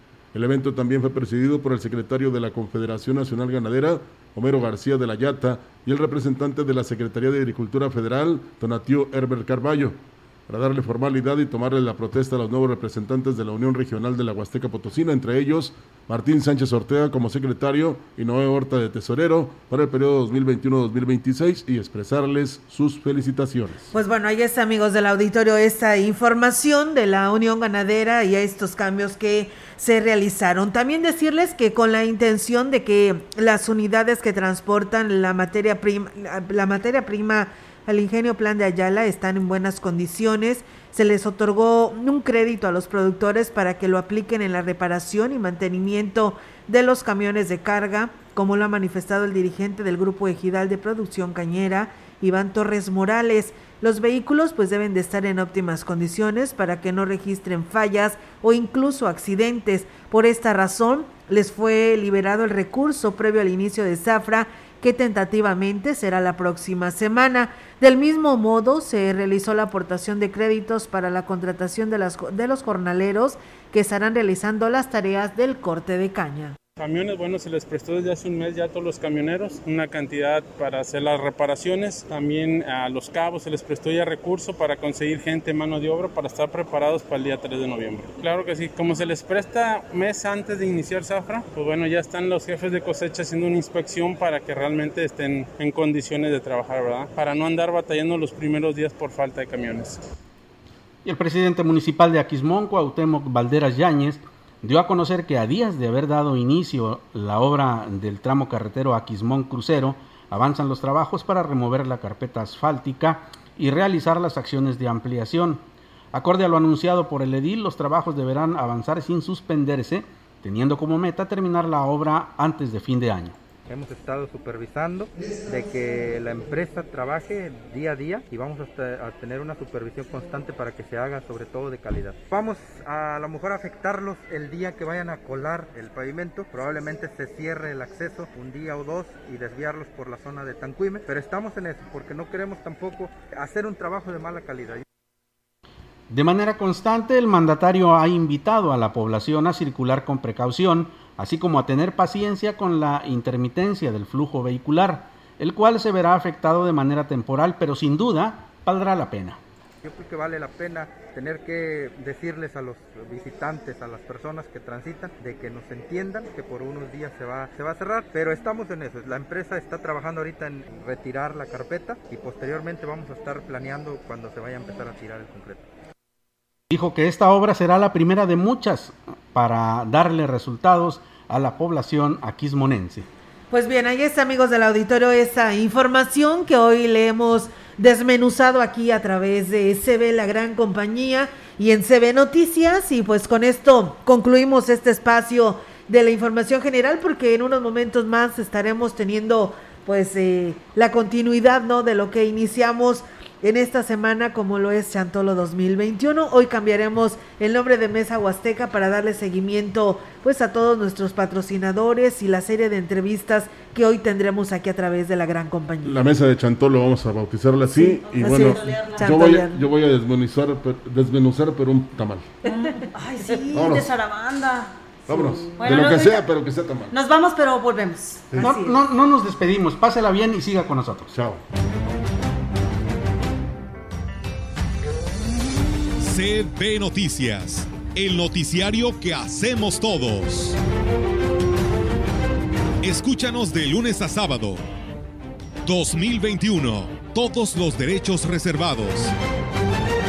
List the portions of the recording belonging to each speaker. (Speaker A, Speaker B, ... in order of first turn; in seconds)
Speaker A: 0.3-10.0, 10.5-23.9, 215.8-222.3, 223.5-223.9, 225.1-226.9, 231.1-231.4
Speaker B: 23.9-76.6, 183.5-216.0, 217.8-219.6, 222.5-223.7, 225.1-225.6, 228.4-228.8
Speaker C: 76.8-100.0
Speaker D: 101.0-123.4, 146.1-159.4, 176.7-183.1, 228.4-231.1
Speaker E: 123.7-144.8, 159.8-175.7
Speaker F: 218.0-219.2, 222.5-224.8, 225.6-226.3, 226.9-228.3
Speaker G: 236.0-240.6, 242.8-244.6, 245.6-249.2